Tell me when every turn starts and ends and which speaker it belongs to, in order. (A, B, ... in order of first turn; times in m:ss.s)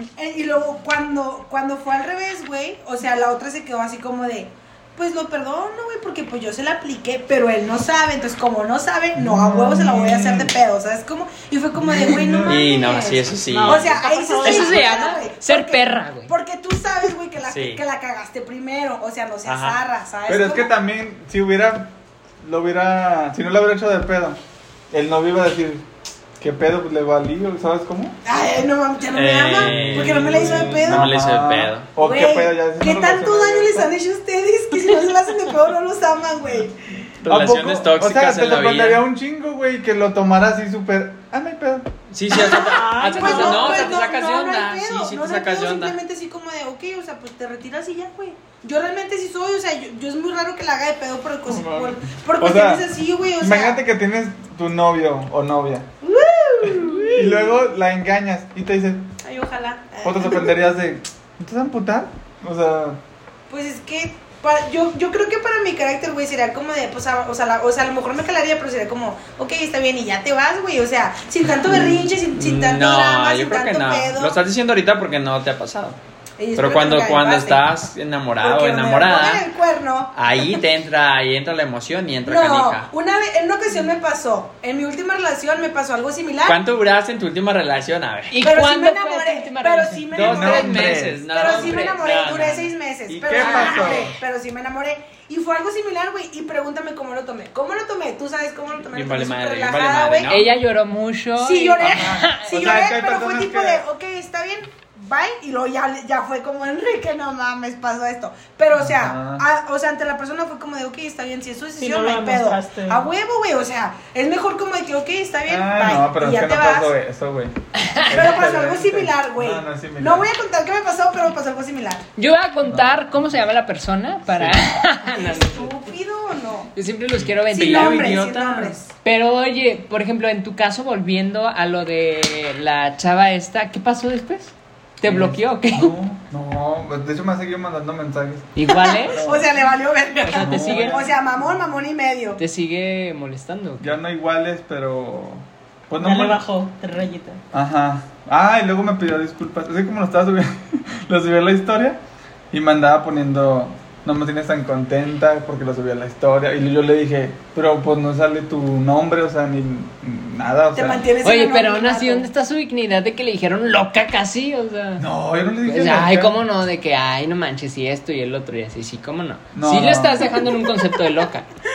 0:00.2-0:20.7 A
0:09.2-0:10.5 B
0:11.8-0:12.6 B
0:12.4-0:14.0 C
0:13.4-0:15.0 D
0:14.4-0:16.3 E
0:17.4-0:17.8 C
0:19.4-0:19.8 C
0:20.3-0:24.4 B
0:24.9-0:25.8 B
0:26.4-0:28.2 B
0:28.2-0:31.1 A
0:29.1-0:31.9 C
0:29.5-0:33.9 B
0:32.0-0:36.8 A
0:37.2-0:41.9 B
0:37.3-0:39.0 C
0:42.1-0:46.0 C
0:42.3-0:43.8 D
0:42.4-0:44.0 E
0:42.4-0:53.8 A
0:51.5-0:52.8 B
0:53.4-0:55.9 B
0:56.0-0:57.5 A
0:56.6-0:59.0 B
0:59.2-1:00.6 A
1:00.0-1:03.0 B
1:03.5-1:14.4 A
1:11.7-1:16.0 C
1:16.4-1:17.7 A
1:16.6-1:19.5 C
1:18.4-1:20.5 A
1:20.1-1:22.9 C
1:22.2-1:26.6 A
1:26.4-1:28.3 C
1:28.3-1:32.0 E
1:28.4-1:40.3 A
1:30.1-1:32.7 C
1:30.2-1:31.2 B
1:33.1-1:34.2 B
1:33.4-1:34.0 E
1:38.9-1:40.5 C
1:40.3-1:42.6 E
1:41.4-1:56.9 A
1:42.4-1:43.8 B
1:48.8-1:49.4 B
1:51.8-1:53.1 D
1:55.5-2:00.2 B
1:58.1-2:02.0 A
2:02.2-2:05.7 E
2:02.7-2:02.9 B
2:04.2-2:04.6 B
2:05.1-2:06.7 A
2:06.7-2:08.1 E
2:07.5-2:08.8 C
2:07.5-2:08.9 A
2:09.0-2:15.9 E
2:15.0-2:19.5 B
2:18.6-2:19.2 E
2:18.7-2:22.4 A
2:20.2-2:21.1 E
2:20.4-2:21.1 B
2:22.4-2:24.0 E
2:23.8-2:26.4 B
2:26.0-2:27.4 D
2:27.5-2:32.0 B
2:32.5-2:41.0 B
2:40.7-2:42.3 A
2:41.2-2:45.0 E
2:45.0-2:46.3 B
2:45.6-2:51.4 E
2:49.5-2:50.3 B